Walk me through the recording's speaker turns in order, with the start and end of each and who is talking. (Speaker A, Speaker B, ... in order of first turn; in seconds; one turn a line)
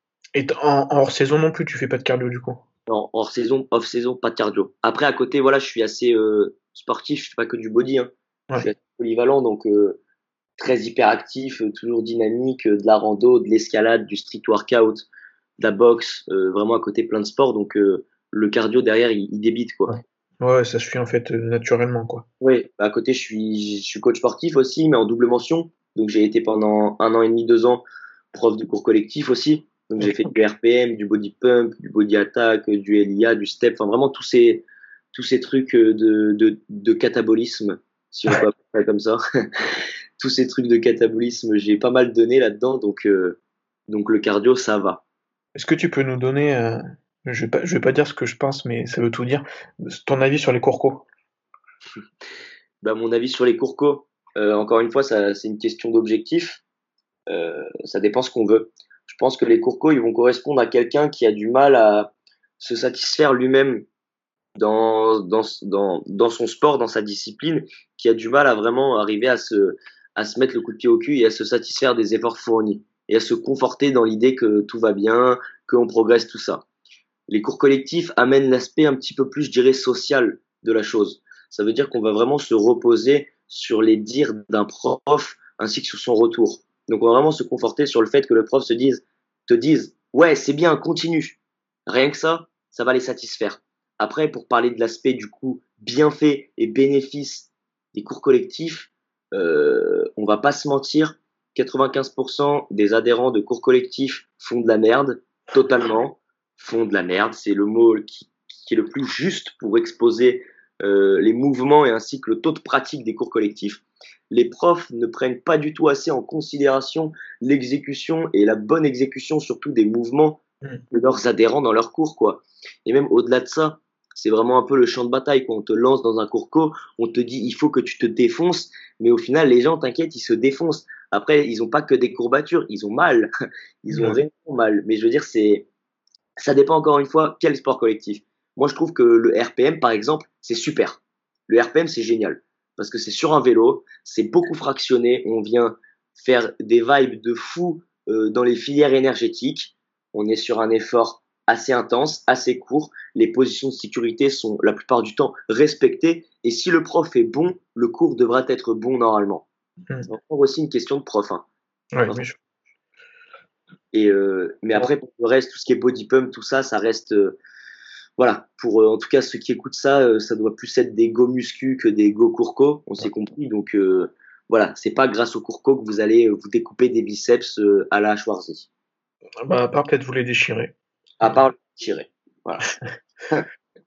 Speaker A: 0.3-2.6
Speaker B: 2.9-10.0
Speaker B: 10.6-15.1
Speaker B: 15.6-19.9
Speaker A: 19.9-22.3
Speaker B: 22.4-45.0
Speaker A: 45.5-51.1
Speaker B: 52.8-56.6
Speaker B: 57.3-63.9
Speaker B: 64.6-76.7
Speaker B: 77.3-133.3
Speaker B: 133.8-135.7
Speaker A: 133.9-134.2
Speaker B: 136.4-159.5
Speaker B: 160.1-161.5
Speaker A: 161.9-162.4
Speaker B: 163.9-167.4
Speaker B: 168.2-178.7
Speaker A: 179.5-181.4
Speaker B: 181.2-182.8